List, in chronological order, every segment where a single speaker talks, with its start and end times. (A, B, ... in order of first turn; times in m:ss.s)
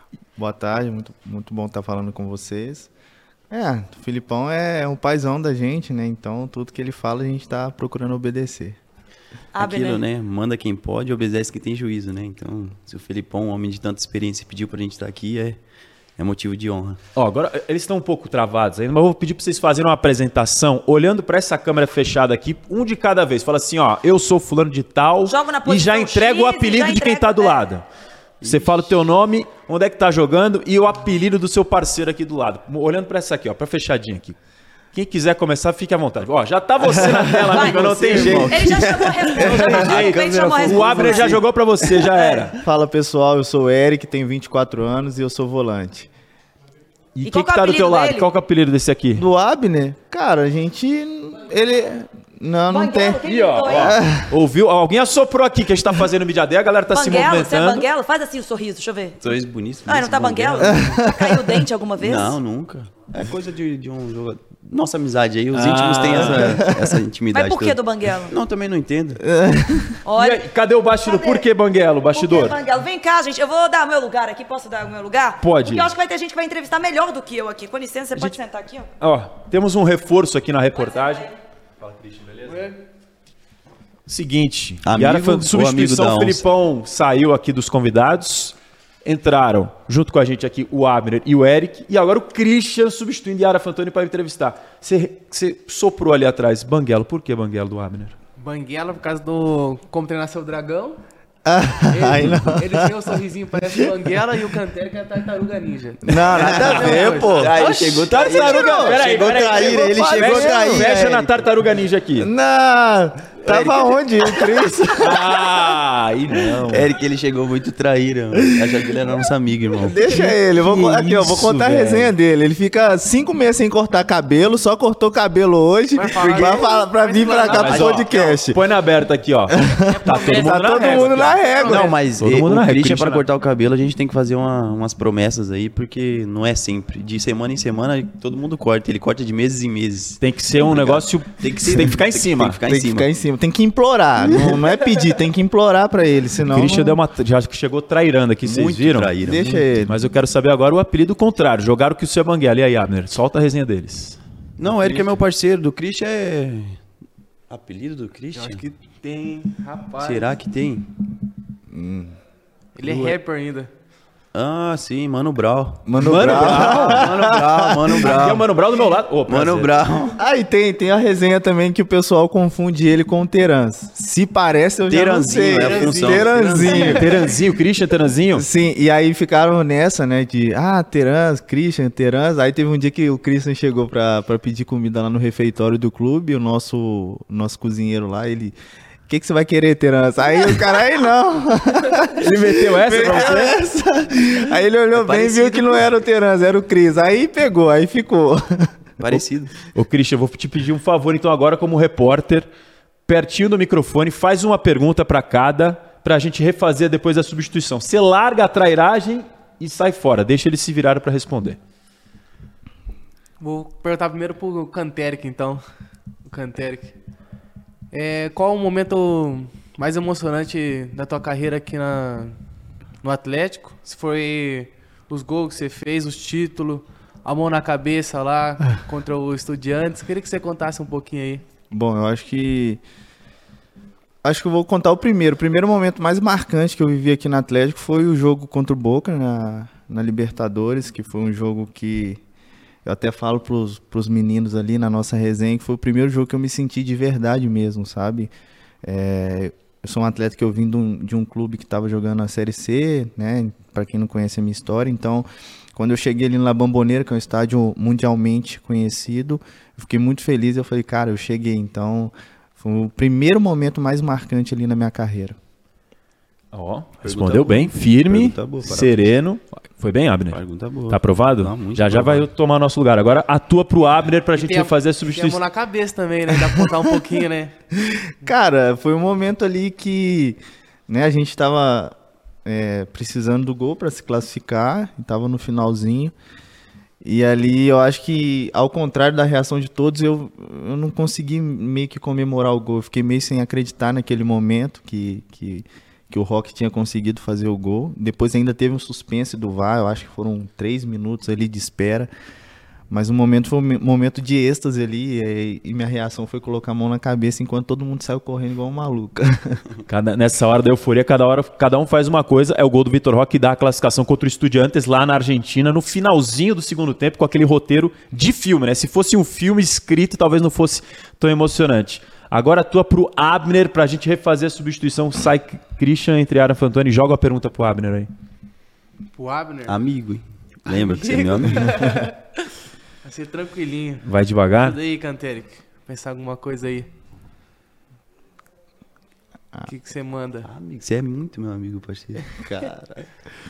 0:00.4-0:02.9 A
0:03.5-0:08.8 A
0:09.5-0:10.0 B
0:09.6-0:15.6 C
0:16.2-0:17.0 C
0:17.2-0:27.8 D
0:25.2-0:27.7 B
0:28.4-0:29.1 C
0:28.4-0:34.4 D
0:34.9-0:42.6 D
0:36.8-0:37.6 A
0:37.5-0:41.4 B
0:37.6-0:42.1 C
0:39.4-0:40.2 A
0:42.6-0:46.1 A
0:47.2-0:49.2 D
0:47.2-0:48.3 B
0:49.2-0:54.3 A
0:52.7-0:54.0 B
0:53.2-0:57.9 D
0:56.9-1:02.4 B
0:59.2-1:00.9 C
1:00.6-1:01.6 A
1:02.0-1:09.2 C
1:05.5-1:06.6 D
1:06.2-1:07.0 A
1:07.3-1:08.4 B
1:09.2-1:10.0 A
1:10.0-1:10.5 B
1:10.2-1:12.6 D
1:11.0-1:11.5 B
1:12.1-1:18.9 B
1:15.4-1:15.9 D
1:19.0-1:21.3 D
1:20.8-1:21.3 B
1:21.8-1:22.5 D
1:22.5-1:22.7 E
1:24.1-1:38.1 D
1:24.8-1:26.4 C
1:38.4-1:41.0 E
1:41.4-1:43.1 A
1:41.9-1:46.0 E
1:43.7-1:44.0 A
1:46.0-1:47.6 A
1:46.3-1:51.0 C
1:46.6-1:47.0 D
1:46.8-1:47.3 E
1:47.6-1:52.3 D
1:48.3-1:49.0 A
1:49.7-1:51.5 A
1:52.2-1:55.4 A
1:53.4-1:54.7 C
1:55.0-1:56.9 D
1:56.3-1:56.9 A
1:56.7-2:00.0 C
1:59.8-2:08.6 A
2:00.1-2:01.9 D
2:01.6-2:02.1 C
2:06.0-2:08.3 E
2:07.5-2:11.4 D
2:07.6-2:08.2 C
2:09.5-2:12.0 A
2:09.9-2:11.8 E
2:11.7-2:23.1 C
2:12.2-2:13.3 D
2:20.2-2:22.6 D
2:22.7-2:27.0 A
2:24.2-2:24.7 C
2:26.5-2:34.2 D
2:28.4-2:29.6 C
2:29.2-2:30.0 A
2:34.6-2:36.8 C
2:34.7-2:35.1 A
2:37.5-2:38.6 C
2:38.4-2:40.3 E
2:40.0-2:40.9 C
2:41.7-2:42.2 A
2:42.8-2:43.7 E
2:42.8-2:43.2 A
2:44.3-2:48.5 C
2:45.9-2:48.2 A
2:46.0-2:47.1 D
2:48.0-2:49.8 D
2:49.3-2:50.2 C
2:50.2-2:57.2 A
2:54.9-2:57.0 C
2:55.9-2:57.0 E
2:56.7-2:58.5 D
2:58.3-3:08.6 A
3:09.1-3:18.4 A
3:12.2-3:13.6 D
3:14.9-3:15.9 C
3:19.0-3:19.6 C
3:19.7-3:22.5 D
3:23.1-3:31.6 D
3:33.4-3:35.6 E
3:36.3-3:37.0 E
3:37.9-3:42.4 E
3:43.0-3:51.4 E
3:51.7-3:52.8 A
3:54.2-4:02.2 A
4:02.8-4:08.3 A
4:08.8-4:25.4 A
4:26.5-4:35.4 D
4:27.0-4:29.2 C
4:30.3-4:32.3 C
4:34.3-4:37.5 E
4:37.8-4:46.1 A
4:47.0-5:02.1 A
5:02.9-5:09.6 A
5:09.9-5:28.1 D
5:29.1-5:29.7 E
5:29.7-5:31.7 C
5:30.7-5:32.1 E
5:33.0-5:36.9 E
5:34.0-5:34.8 D
5:39.7-5:40.5 E
5:40.4-5:42.3 C
5:42.4-5:43.0 A